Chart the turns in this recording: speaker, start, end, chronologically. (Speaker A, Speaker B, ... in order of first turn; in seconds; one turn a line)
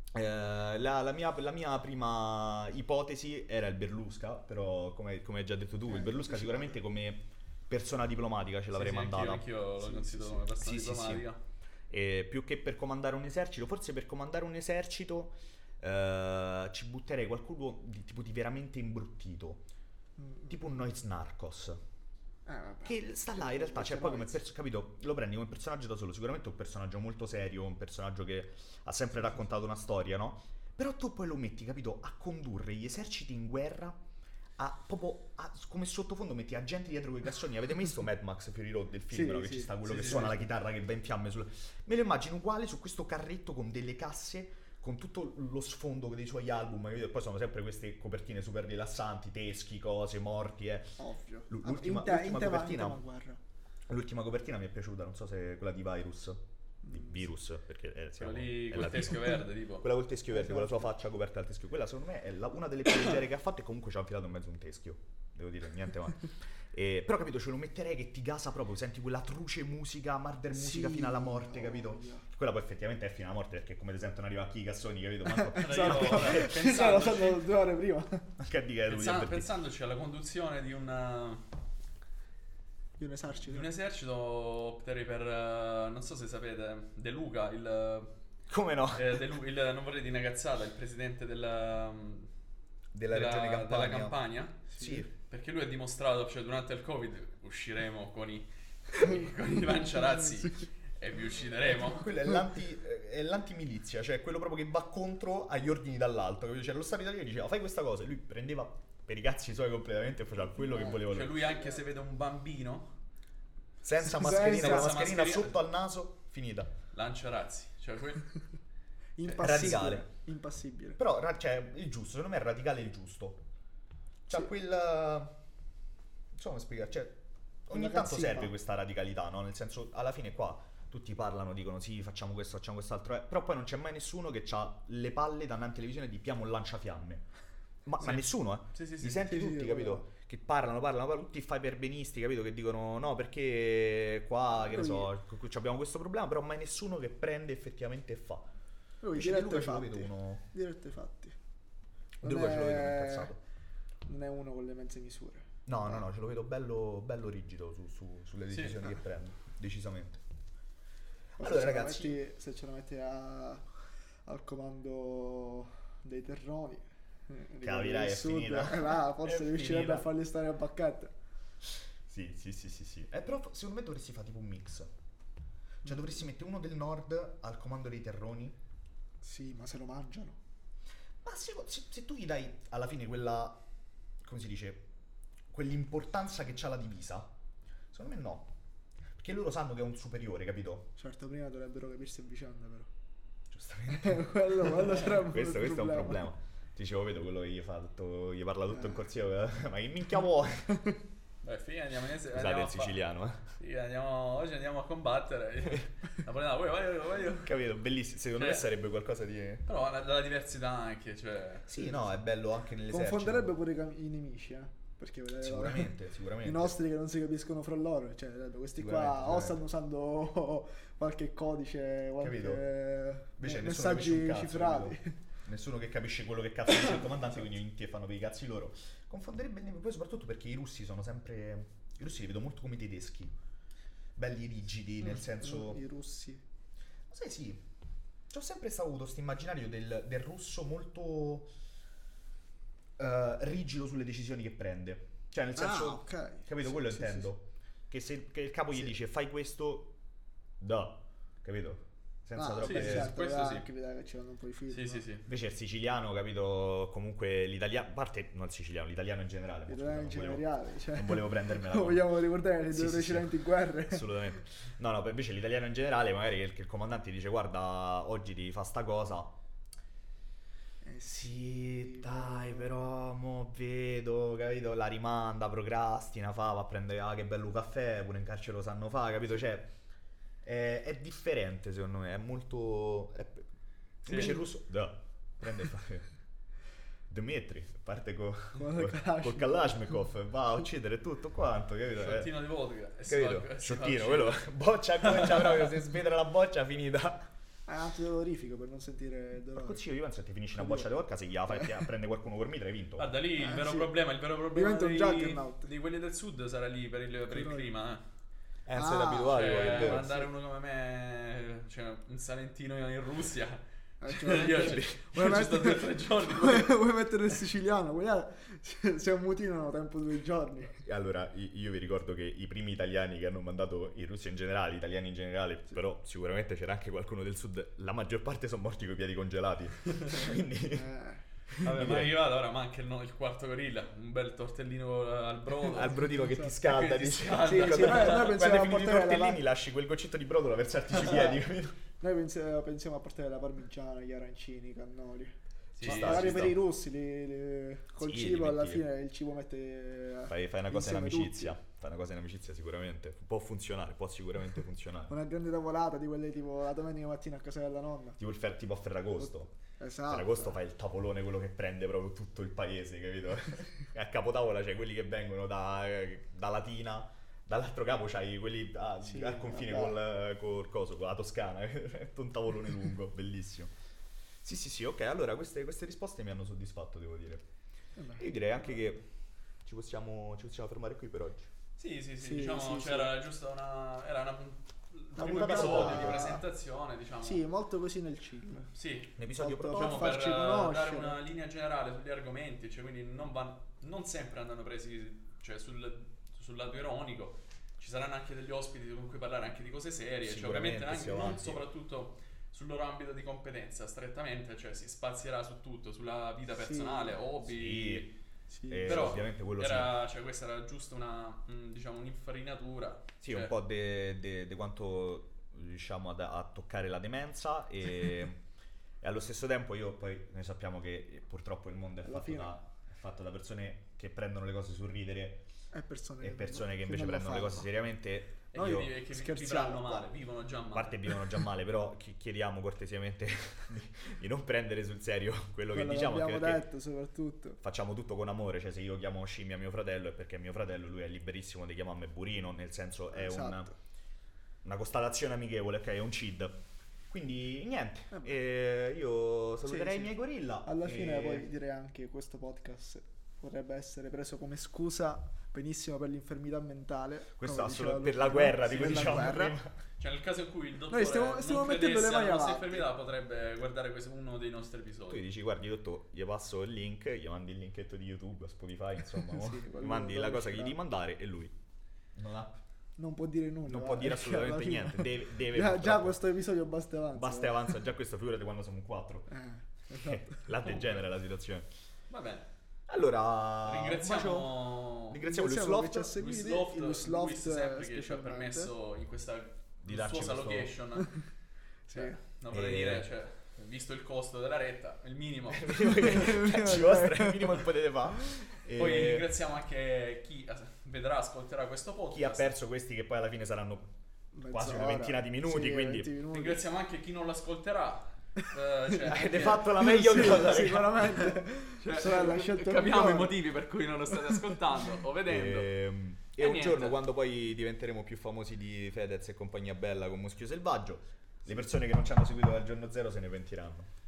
Speaker A: 0.1-9.5
Speaker B: 5.9-6.8
Speaker C: 8.7-11.4
Speaker B: 9.8-10.4
Speaker A: 10.5-11.3
Speaker A: 11.9-19.6
Speaker B: 20.2-20.7
Speaker A: 20.5-21.8
Speaker B: 22.5-24.4
Speaker A: 22.9-34.0
Speaker A: 34.6-53.0
Speaker B: 39.1-39.7
Speaker C: 39.8-40.4
Speaker B: 51.0-53.4
Speaker A: 53.9-76.6
Speaker B: 56.8-57.3
Speaker C: 58.2-59.9
Speaker B: 60.3-60.9
Speaker B: 70.5-72.3
Speaker B: 75.3-78.3
Speaker C: 75.6-77.5
Speaker A: 78.4-79.5
Speaker C: 78.9-81.5
Speaker B: 83.0-83.7
Speaker C: 83.4-88.1
Speaker A: 88.5-89.2
Speaker C: 89.0-92.3
Speaker A: 92.9-94.2
Speaker C: 93.1-94.7
Speaker B: 94.7-95.1
Speaker A: 94.8-95.1
Speaker C: 95.2-102.1
Speaker A: 101.6-111.5
Speaker B: 110.4-111.0
Speaker C: 110.9-113.0
Speaker A: 113.8-116.7
Speaker B: 114.1-115.0
Speaker C: 114.2-115.6
Speaker C: 116.9-118.3
Speaker B: 119.2-121.0
Speaker A: 119.3-120.1
Speaker A: 121.0-123.4
Speaker A: 124.3-125.3
Speaker A: 126.3-137.3
Speaker B: 127.7-128.5
Speaker A: 137.9-148.5
Speaker C: 138.7-139.2
Speaker B: 139.1-140.1
Speaker B: 144.6-145.1
Speaker B: 149.0-151.4
Speaker A: 149.1-150.5
Speaker A: 152.2-153.4
Speaker B: 152.2-153.3
Speaker B: 154.1-156.1
Speaker A: 155.7-160.2
Speaker C: 158.5-159.0
Speaker A: 161.4-162.2
Speaker B: 161.4-163.7
Speaker B: 164.2-171.1
Speaker A: 167.6-170.0
Speaker C: 169.6-170.0
Speaker A: 172.1-174.9
Speaker A: 175.8-178.6
Speaker B: 179.2-180.4
Speaker A: 181.2-183.6
Speaker A: 184.2-184.9
Speaker A: 185.5-187.3
Speaker A: 187.9-188.5
Speaker A: 189.2-190.9
Speaker B: 190.9-192.9
Speaker A: 193.5-200.8
Speaker B: 193.9-196.3
Speaker B: 198.7-199.1
Speaker C: 201.4-203.0
Speaker A: 202.3-203.5
Speaker C: 203.6-207.5
Speaker A: 207.4-209.7
Speaker C: 208.3-208.7
Speaker C: 209.7-211.7
Speaker A: 211.7-213.5
Speaker B: 212.9-225.2
Speaker A: 215.4-216.8
Speaker A: 218.8-219.6
Speaker A: 222.2-222.7
Speaker A: 223.4-233.3
Speaker A: 234.2-235.8
Speaker B: 235.0-236.4
Speaker A: 237.1-237.7
Speaker A: 238.3-241.5
Speaker A: 243.0-249.9
Speaker B: 245.6-247.3
Speaker A: 250.6-253.1
Speaker B: 252.4-255.1
Speaker C: 252.6-253.7
Speaker C: 254.7-255.3
Speaker A: 255.3-262.1
Speaker B: 259.7-264.4
Speaker A: 262.7-269.4
Speaker B: 270.8-272.8
Speaker A: 271.1-279.7
Speaker A: 280.4-283.5
Speaker C: 284.1-284.4
Speaker A: 284.1-286.1
Speaker A: 287.1-292.3
Speaker B: 288.6-289.7
Speaker C: 292.0-294.5
Speaker A: 293.1-297.3
Speaker C: 295.0-295.7
Speaker B: 297.7-299.8
Speaker A: 299.6-303.1
Speaker B: 300.5-300.9
Speaker B: 301.5-301.9
Speaker C: 303.0-308.0
Speaker B: 303.4-303.9
Speaker B: 304.5-305.7
Speaker B: 307.3-307.7
Speaker A: 308.7-310.1
Speaker B: 308.8-310.3
Speaker C: 309.3-316.7
Speaker B: 314.0-320.8
Speaker A: 314.5-315.0
Speaker A: 320.8-330.9
Speaker B: 330.7-331.3
Speaker A: 331.5-332.2
Speaker C: 331.6-338.4
Speaker A: 335.6-341.8
Speaker B: 336.2-336.6
Speaker B: 337.4-339.4
Speaker B: 340.9-351.6
Speaker C: 345.8-346.5
Speaker A: 345.8-346.6
Speaker A: 348.0-348.9
Speaker A: 350.3-355.1
Speaker B: 355.1-358.2
Speaker A: 358.2-359.5
Speaker B: 359.2-360.6
Speaker A: 360.1-373.7
Speaker B: 369.0-370.0
Speaker A: 374.4-377.4
Speaker B: 378.0-378.3
Speaker A: 378.2-379.1
Speaker A: 379.6-381.5
Speaker C: 381.8-387.4
Speaker B: 382.2-383.2
Speaker B: 385.2-386.4
Speaker A: 385.2-386.4
Speaker B: 387.2-388.7
Speaker C: 388.8-389.1
Speaker A: 389.2-390.2
Speaker B: 389.3-391.2
Speaker C: 389.7-408.1
Speaker A: 400.2-401.6
Speaker B: 406.5-407.2
Speaker A: 407.4-408.1
Speaker B: 408.5-409.2
Speaker A: 408.7-409.9
Speaker C: 408.8-413.5
Speaker A: 413.2-418.4
Speaker A: 419.0-425.4
Speaker B: 422.0-422.6
Speaker B: 425.7-427.7
Speaker A: 426.2-428.9
Speaker C: 428.5-431.3
Speaker B: 429.1-430.1
Speaker A: 430.7-436.6
Speaker B: 435.7-437.6
Speaker A: 437.6-443.7
Speaker B: 443.1-443.7
Speaker A: 444.6-446.5
Speaker A: 447.1-451.5
Speaker B: 448.1-448.4
Speaker B: 449.7-459.6
Speaker A: 457.3-459.7
Speaker C: 458.6-459.4
Speaker C: 460.0-465.2
Speaker B: 460.9-462.9
Speaker A: 465.1-471.5
Speaker B: 469.2-470.8
Speaker A: 472.2-472.6
Speaker B: 473.0-477.8
Speaker A: 473.7-476.2
Speaker A: 477.1-479.3
Speaker B: 479.3-480.5
Speaker A: 479.9-481.7
Speaker C: 480.6-481.0
Speaker C: 482.1-482.5
Speaker A: 482.9-486.1
Speaker C: 483.6-485.2
Speaker B: 485.2-488.7
Speaker C: 486.1-491.2
Speaker A: 489.8-490.7
Speaker B: 491.9-492.2
Speaker C: 491.9-496.4
Speaker A: 492.5-493.1
Speaker A: 495.5-499.3
Speaker B: 496.0-497.6
Speaker C: 498.7-502.6
Speaker A: 502.1-503.9
Speaker B: 504.3-506.7
Speaker A: 504.5-506.1
Speaker C: 506.3-515.7
Speaker A: 509.1-511.1
Speaker B: 509.6-513.4
Speaker A: 515.3-523.9
Speaker C: 516.4-517.0